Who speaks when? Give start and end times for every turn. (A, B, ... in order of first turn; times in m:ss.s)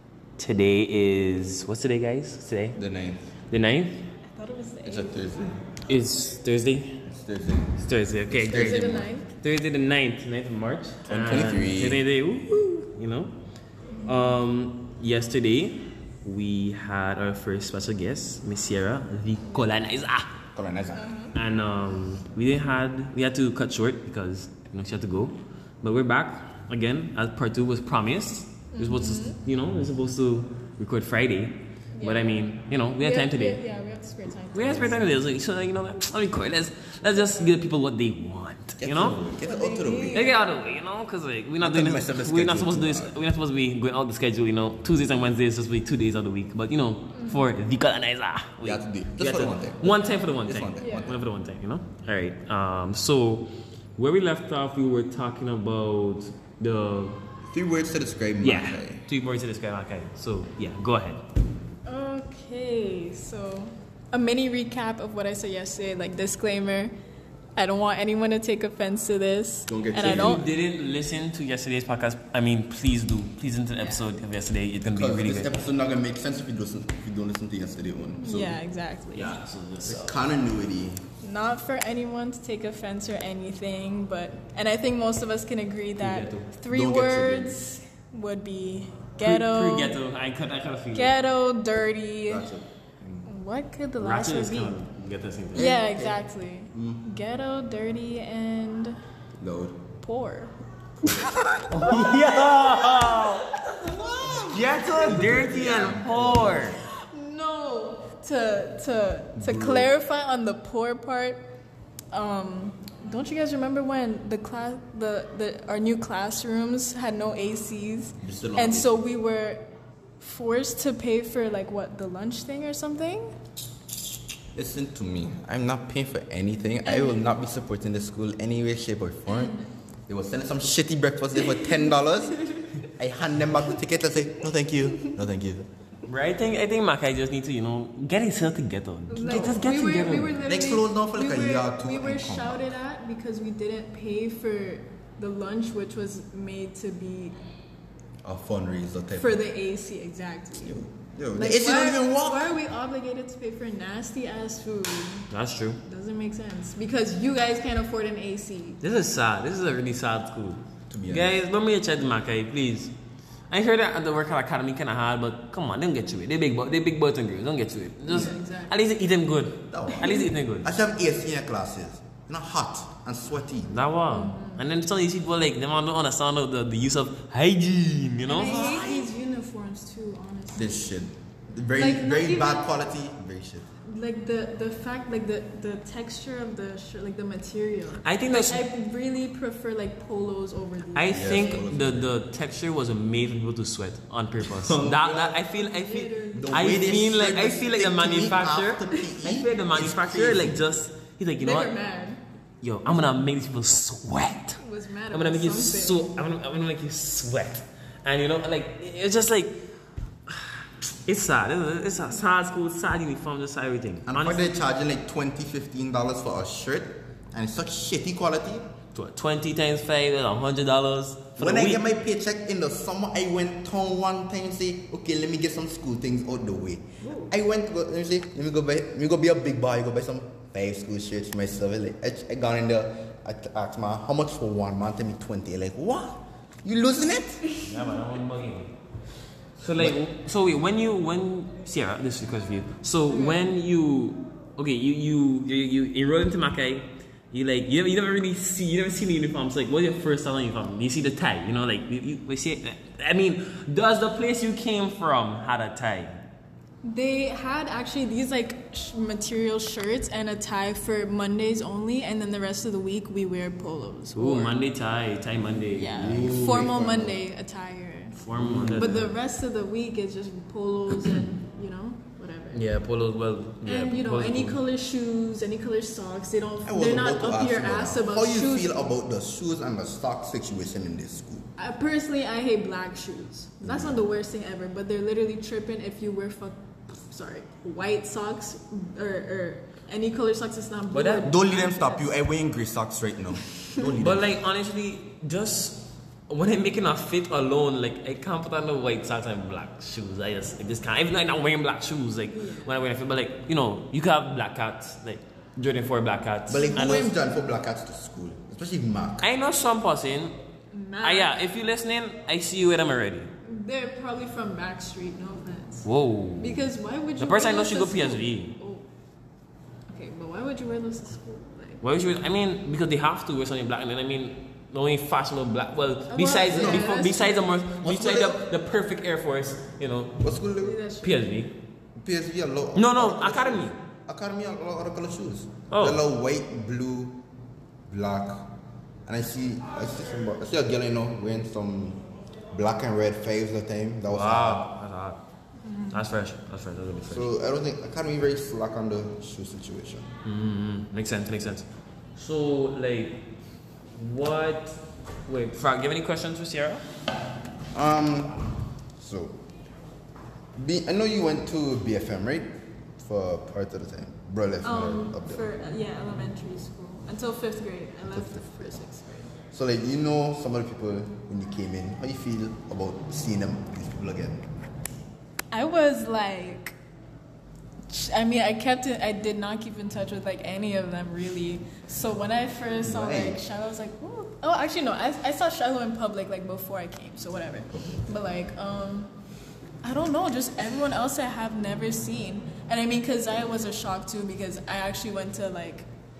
0:00.4-0:02.8 A
0:02.8-0:03.2 B
0:03.5-0:04.0 A
0:04.3-0:05.2 C
0:04.8-0:05.6 B
0:05.8-0:07.1 A
0:07.0-0:09.2 B
0:07.8-0:13.3 A
0:08.5-0:09.2 C
0:11.1-0:12.0 B
0:14.0-0:20.4 A
0:20.5-0:21.1 B
0:20.9-0:21.3 C
0:21.3-0:33.6 A
0:28.7-0:29.4 C
0:31.9-0:32.4 C
0:33.0-0:35.2 C
0:34.5-0:39.2 A
0:38.8-0:40.2 B
0:39.4-0:40.6 C
0:40.1-0:57.2 A
0:41.6-0:43.1 B
0:47.2-0:47.5 C
0:48.6-0:51.2 B
0:50.8-0:51.2 C
0:57.5-0:59.0 B
0:58.4-1:01.2 A
1:01.8-1:06.9 C
1:07.6-1:10.4 C
1:09.7-1:10.4 B
1:10.0-1:15.5 A
1:14.9-1:18.6 B
1:18.2-1:19.4 C
1:19.1-1:20.2 A
1:19.8-1:21.0 B
1:21.2-1:30.0 C
1:26.0-1:26.5 A
1:26.7-1:27.6 B
1:29.2-1:31.1 A
1:30.9-1:32.5 C
1:32.3-1:33.3 B
1:33.3-1:34.8 C
1:34.0-1:35.8 A
1:35.5-1:36.2 B
1:35.5-1:39.0 C
1:36.7-1:37.0 B
1:39.4-1:39.8 B
1:40.0-1:40.5 C
1:41.0-1:42.4 B
1:41.6-1:43.5 A
1:41.8-1:44.0 C
1:43.7-1:46.8 B
1:44.3-1:46.8 A
1:46.9-1:51.4 C
1:49.4-1:49.9 B
1:52.1-1:59.6 C
1:58.2-1:59.0 B
2:00.2-2:03.3 C
2:04.5-2:09.6 B
2:06.8-2:07.3 C
2:09.3-2:09.6 C
2:10.1-2:15.7 B
2:16.0-2:20.4 A
2:19.1-2:27.3 C
2:19.2-2:19.7 B
2:20.4-2:22.6 B
2:28.2-2:29.4 B
2:29.2-2:30.8 C
2:30.6-2:32.5 B
2:31.3-2:35.3 C
2:35.3-2:35.8 A
2:35.8-2:38.8 C
2:38.8-2:42.9 A
2:40.9-2:41.4 B
2:43.5-2:50.7 A
2:48.1-2:48.8 C
2:49.7-2:53.7 B
2:50.0-2:50.3 C
2:53.7-2:58.6 A
2:54.1-2:54.6 C
2:58.3-3:00.8 C
2:58.3-2:59.1 B
3:00.5-3:03.7 B
3:01.8-3:02.7 C
3:03.8-3:11.6 C
3:08.0-3:08.6 A
3:10.9-3:21.7 A
3:11.1-3:12.1 B
3:14.4-3:15.4 B
3:15.4-3:16.9 C
3:16.3-3:20.7 B
3:21.4-3:22.2 C
3:22.6-3:24.6 A
3:24.6-3:26.1 C
3:25.1-3:29.6 A
3:30.3-3:34.5 A
3:34.0-3:38.7 B
3:38.9-3:41.8 A
3:41.4-3:57.4 B
3:47.0-3:47.3 A
3:57.6-3:58.7 A
3:59.6-4:16.2 A
4:03.1-4:03.4 C
4:16.8-4:24.6 C
4:24.1-4:26.7 A
4:25.7-4:28.2 C
4:26.0-4:27.2 B
4:28.2-4:29.1 A
4:28.3-4:29.1 B
4:28.7-4:32.6 C
4:32.5-4:34.6 A
4:33.6-4:38.8 C
4:36.6-4:41.5 B
4:41.6-4:52.0 C
4:43.6-4:44.0 B
4:50.9-4:51.6 A
4:51.2-4:54.3 B
4:54.0-5:07.1 A
5:02.3-5:02.7 C
5:06.5-5:09.3 B
5:09.2-5:10.4 A
5:10.7-5:11.4 C
5:11.0-5:13.3 A
5:13.4-5:15.8 C
5:15.8-5:16.6 A
5:16.4-5:18.9 C
5:17.2-5:18.5 A
5:19.9-5:21.8 C
5:21.8-5:30.2 A
5:26.1-5:27.5 C
5:26.5-5:27.1 B
5:27.8-5:28.5 B
5:30.2-5:30.8 B
5:30.6-5:31.3 C
5:31.0-5:31.5 A
5:32.0-5:37.2 B
5:32.7-5:33.7 A
5:35.7-5:36.0 A
5:37.9-5:38.5 B
5:39.1-5:44.6 B
5:44.1-5:45.2 A
5:45.6-5:46.0 C
5:45.9-5:47.3 A
5:47.1-5:50.1 B
5:50.2-5:53.2 A
5:54.0-5:56.8 A
5:57.7-5:58.4 B
5:59.0-5:59.4 B
6:00.6-6:05.4 B
6:04.6-6:09.3 C
6:08.1-6:08.5 B
6:09.5-6:14.5 B
6:15.5-6:16.7 C
6:17.9-6:29.1 C
6:22.8-6:23.4 B
6:29.8-6:35.8 C